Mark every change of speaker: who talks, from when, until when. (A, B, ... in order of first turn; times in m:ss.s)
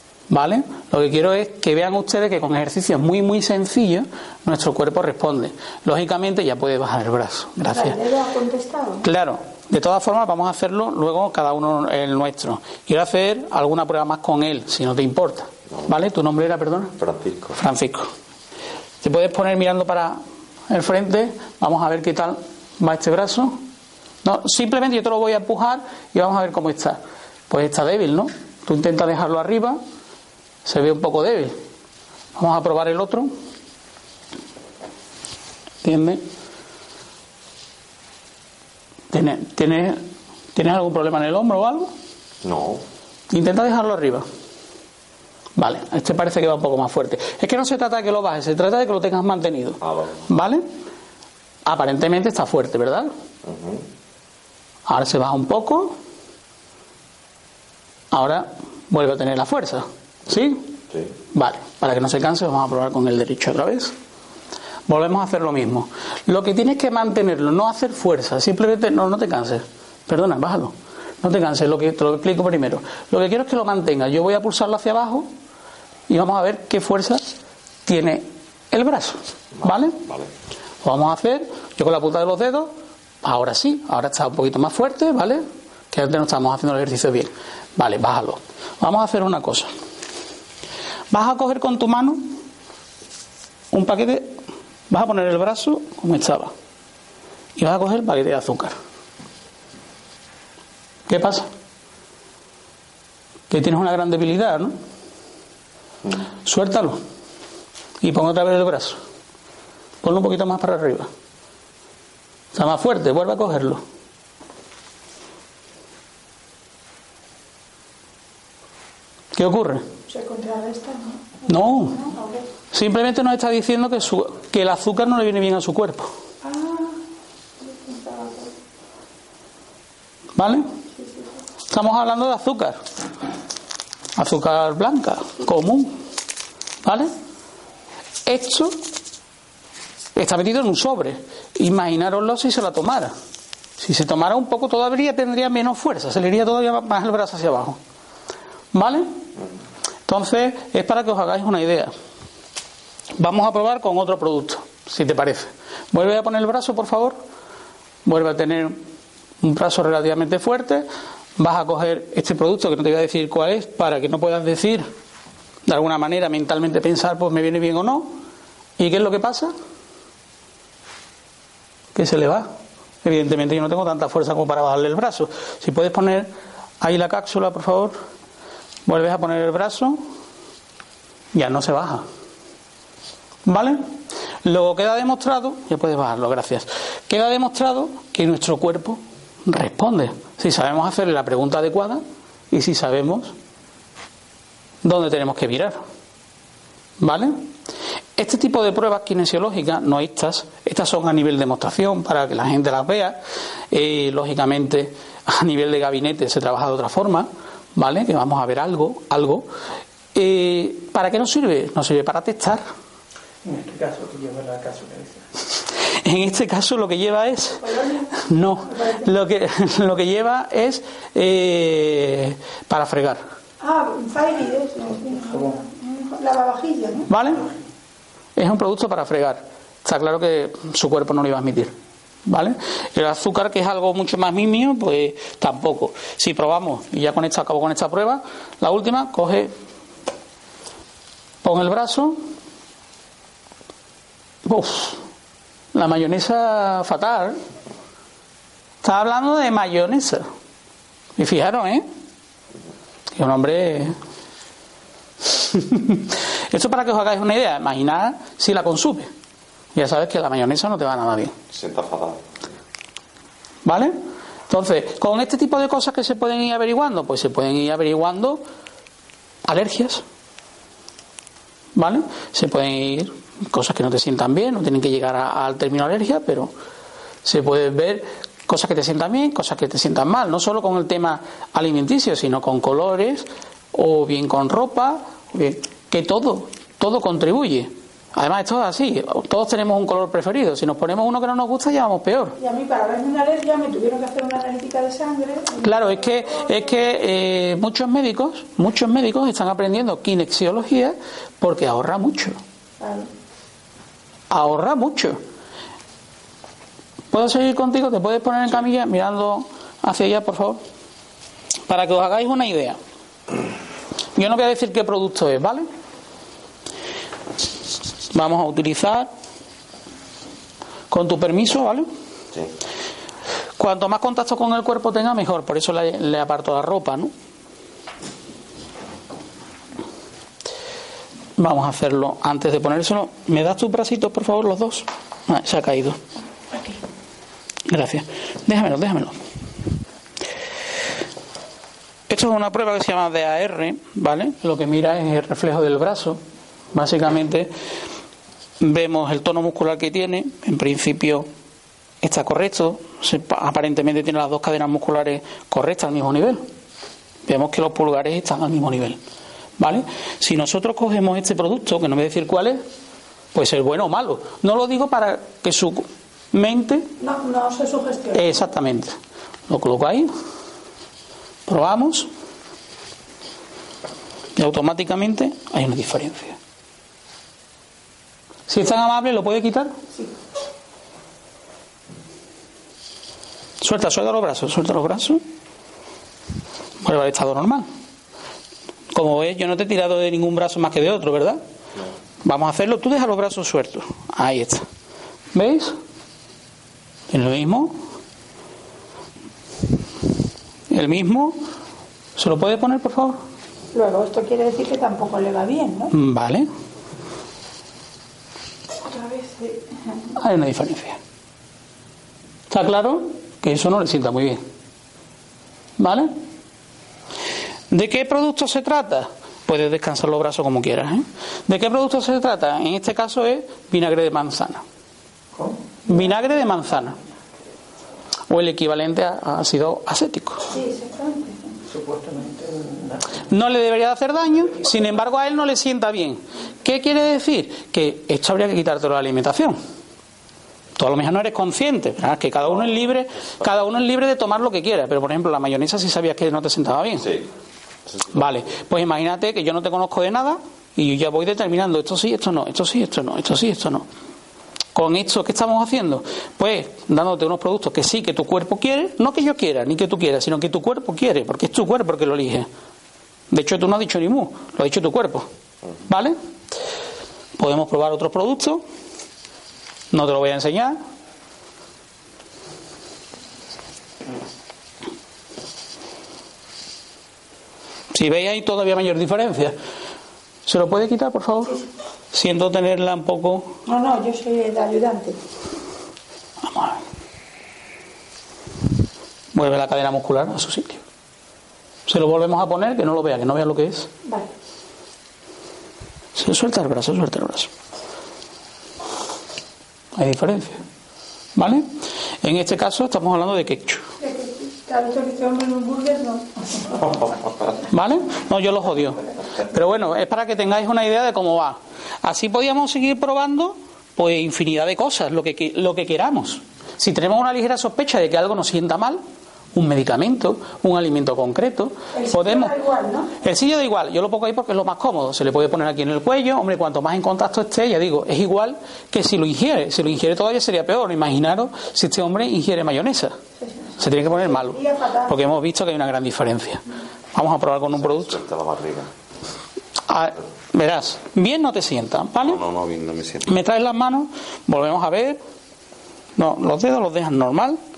0:00.3-0:08.0 A
0:07.7-0:09.0 B
0:09.0-0:17.0 A
0:17.0-0:17.6 C
0:17.6-0:18.1 A
0:19.0-0:23.6 A
0:24.2-0:29.8 A
0:30.6-0:31.6 A
0:32.4-0:33.3 A
0:35.8-0:36.2 A
0:39.1-0:41.9 A
0:42.4-0:42.8 C
0:43.3-0:44.3 A
0:45.6-0:50.7 A
0:49.8-0:50.3 C
0:51.7-0:53.1 A
0:53.4-0:53.8 C
0:54.9-0:56.0 A
0:58.1-1:00.6 A
1:01.3-1:04.0 A
1:04.9-1:15.3 A
1:16.1-1:17.3 A
1:17.8-1:20.0 A
1:19.6-1:20.3 C
1:20.8-1:22.7 A
1:23.2-1:29.7 A
1:31.1-1:32.3 A
1:33.7-1:34.4 A
1:34.9-1:36.5 A
1:37.6-1:38.8 A
1:41.1-1:41.5 A
1:43.5-1:44.8 A
1:46.4-1:47.0 A
1:48.0-1:49.0 A
1:50.0-1:51.1 A
1:52.5-1:53.8 A
1:59.3-1:59.8 A
2:00.1-2:02.5 B
2:01.5-2:02.0 A
2:02.7-2:06.1 A
2:06.4-2:07.0 B
2:07.6-2:08.5 B
2:10.4-2:10.7 A
2:11.0-2:11.4 B
2:11.7-2:12.8 A
2:14.2-2:15.9 A
2:16.8-2:17.1 A
2:18.2-2:18.8 A
2:20.2-2:23.1 A
2:23.8-2:27.8 A
2:28.7-2:29.2 A
2:30.1-2:31.9 A
2:33.2-2:37.2 A
2:38.0-2:38.8 A
2:39.4-2:40.9 A
2:41.4-2:44.9 A
2:45.7-2:48.1 A
2:48.8-2:49.5 A
2:52.0-2:52.5 A
2:53.0-2:56.3 A
2:56.8-2:58.0 A
2:58.9-3:00.0 A
3:01.3-3:02.0 A
3:03.5-3:03.9 A
3:04.4-3:13.3 A
3:14.8-3:15.8 A
3:17.0-3:17.5 A
3:18.2-3:23.2 A
3:23.7-3:29.5 A
3:30.2-3:32.6 A
3:33.4-3:35.3 D
3:35.8-3:43.2 A
3:37.6-3:39.1 B
3:43.6-3:47.1 B
3:47.1-3:47.5 A
3:48.4-3:51.7 A
3:52.3-3:59.5 A
4:01.4-4:02.2 A
4:04.4-4:05.0 A
4:05.7-4:07.4 A
4:08.8-4:10.3 A
4:11.2-4:11.8 A
4:13.2-4:14.0 A
4:15.2-4:19.1 A
4:19.8-4:21.4 A
4:21.5-4:22.3 C
4:23.6-4:24.0 A
4:24.5-4:28.4 A
4:29.4-4:30.0 A
4:31.8-4:36.5 A
4:37.2-4:52.4 A
4:52.4-4:56.7 B
4:55.6-5:02.4 A
5:02.8-5:03.1 B
5:04.3-5:05.2 A
5:07.1-5:10.6 A
5:11.7-5:12.8 A
5:14.2-5:15.7 A
5:18.1-5:19.1 A
5:20.9-5:21.9 A
5:23.6-5:27.1 A
5:31.4-5:36.0 A
5:37.7-5:39.2 A
5:42.1-5:46.2 A
5:46.7-5:47.5 A
5:48.6-5:51.3 A
5:52.0-5:56.4 A
5:57.3-5:59.0 A
5:59.6-6:02.6 A
6:03.3-6:06.9 A
6:07.0-6:08.4 B
6:08.2-6:09.0 A
6:09.5-6:10.1 A
6:11.5-6:12.1 A
6:14.4-6:16.4 A
6:18.5-6:19.7 A
6:23.6-6:25.2 A
6:26.8-6:27.7 A
6:28.9-6:31.4 A
6:32.2-6:34.6 A
6:35.3-6:35.8 A
6:37.1-6:37.8 A
6:40.7-6:41.4 A
6:42.2-6:43.2 A
6:43.7-6:45.9 B
6:45.9-6:46.5 A
6:48.8-6:49.8 B
6:50.2-6:51.0 A
6:52.5-6:54.4 A
6:55.8-6:56.1 A
6:57.7-7:04.6 A
7:05.9-7:07.0 A
7:08.3-7:10.4 A
7:10.5-7:11.4 B
7:11.7-7:13.2 D
7:13.2-7:19.6 A
7:20.8-7:27.1 A
7:27.0-7:27.3 C
7:28.1-7:33.9 A
7:34.8-7:42.5 A
7:43.3-7:45.3 A
7:45.9-7:46.2 A
7:47.4-7:48.6 A
7:49.9-7:50.8 A
7:57.9-7:59.6 A
8:00.4-8:01.6 A
8:02.1-8:03.5 A
8:03.7-8:05.2 B
8:06.4-8:06.8 A
8:09.3-8:10.8 A
8:11.9-8:13.9 A
8:14.0-8:14.3 B
8:16.2-8:17.5 A
8:20.0-8:20.6 A
8:21.4-8:21.7 A
8:22.2-8:23.8 A
8:24.0-8:27.0 B
8:27.7-8:39.0 A
8:39.5-8:42.6 A
8:41.9-8:43.1 B
8:43.2-8:53.2 A
8:53.4-8:55.2 B
8:53.8-8:58.2 A
8:57.8-8:58.9 C
8:59.9-9:02.4 A
9:02.2-9:03.3 C
9:03.3-9:05.2 A
9:06.2-9:07.6 A